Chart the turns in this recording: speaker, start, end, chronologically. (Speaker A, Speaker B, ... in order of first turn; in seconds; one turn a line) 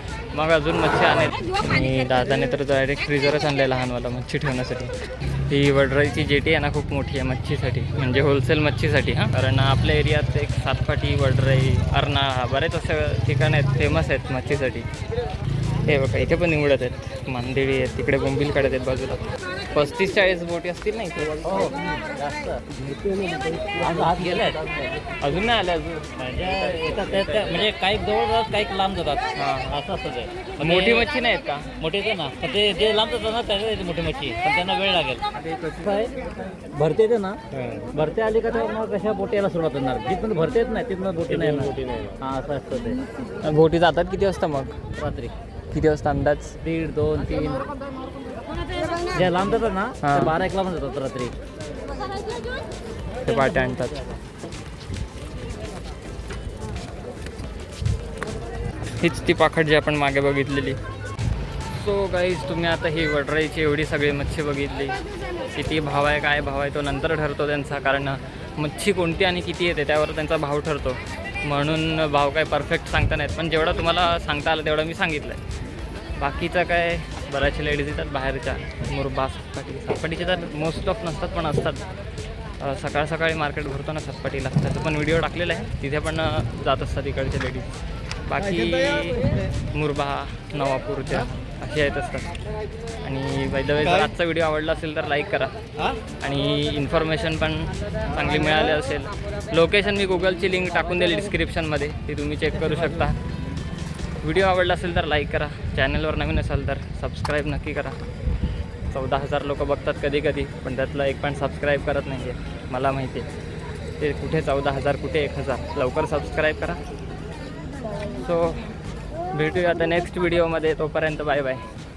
Speaker A: 0.3-14.9
Speaker A: 15.8-21.4
Speaker B: 21.4-22.6
Speaker B: 23.7-24.7
Speaker A: 25.2-26.1
Speaker B: 26.2-31.1
Speaker A: 29.4-29.8
Speaker A: 30.6-31.7
Speaker B: 31.8-43.0
Speaker A: 41.3-41.7
Speaker A: 43.4-44.8
Speaker B: 45.0-45.3
Speaker A: 45.7-46.6
Speaker B: 46.6-47.7
Speaker B: 49.0-51.3
Speaker A: 50.0-50.4
Speaker A: 53.2-54.0
Speaker A: 59.0-60.8
Speaker A: 61.7-75.4
Speaker A: 76.2-81.8
Speaker A: 82.6-92.3
Speaker A: 93.0-95.5
Speaker A: 96.2-103.2
Speaker A: 104.2-108.0
Speaker A: 108.9-113.3
Speaker A: 114.0-116.8
Speaker A: 118.1-118.8
Speaker A: 119.3-121.6